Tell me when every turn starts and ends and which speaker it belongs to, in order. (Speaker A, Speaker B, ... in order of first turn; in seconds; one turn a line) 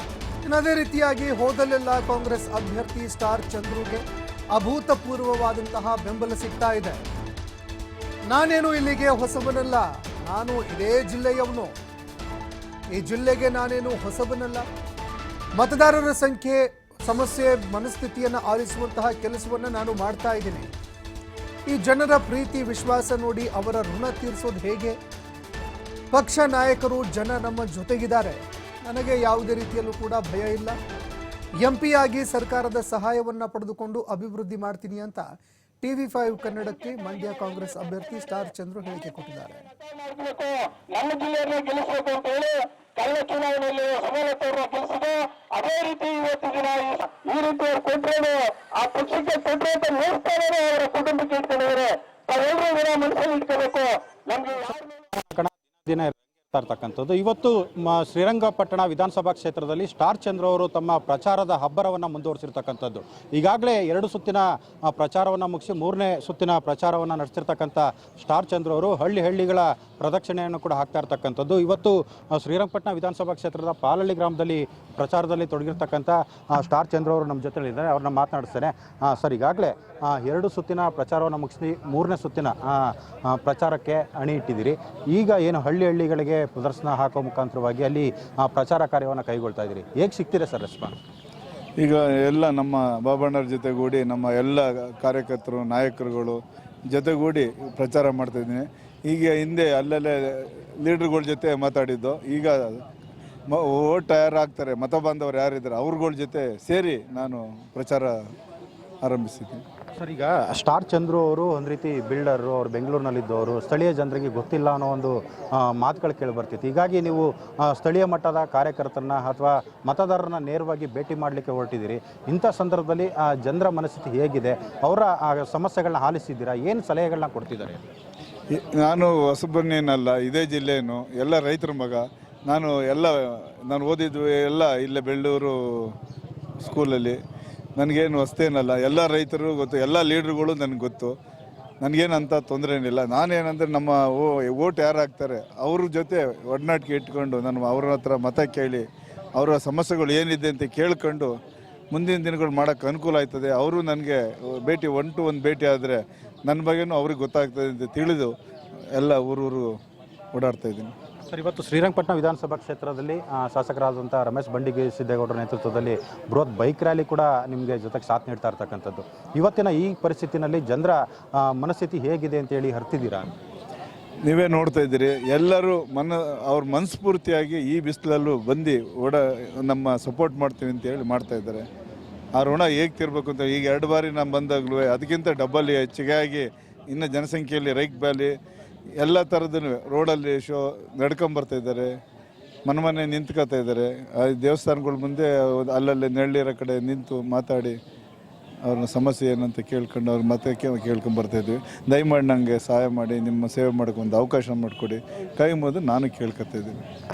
Speaker A: 0.4-7.0
Speaker A: 8.3-11.7
Speaker A: 12.9-14.6
Speaker A: 15.6-20.7
Speaker A: 21.7-25.0
Speaker A: 26.1-30.8
Speaker A: 31.6-35.2
Speaker A: 35.8-39.7
Speaker B: 39.9-54.5
Speaker C: 54.3-91.0
Speaker D: 91.8-102.8
Speaker D: 103.5-108.1
Speaker D: 109.0-109.6
Speaker C: 110.0-127.8
Speaker D: 128.5-135.9
Speaker D: 136.6-137.2
Speaker D: 137.8-141.1
Speaker D: 141.8-151.3
Speaker D: 151.9-158.3
Speaker D: 158.9-159.7
Speaker D: 160.3-160.9
Speaker C: 161.3-173.3
Speaker D: 174.2-181.7
Speaker D: 182.3-188.3
Speaker D: 189.0-191.9
Speaker D: 192.7-197.8
Speaker D: 198.6-206.8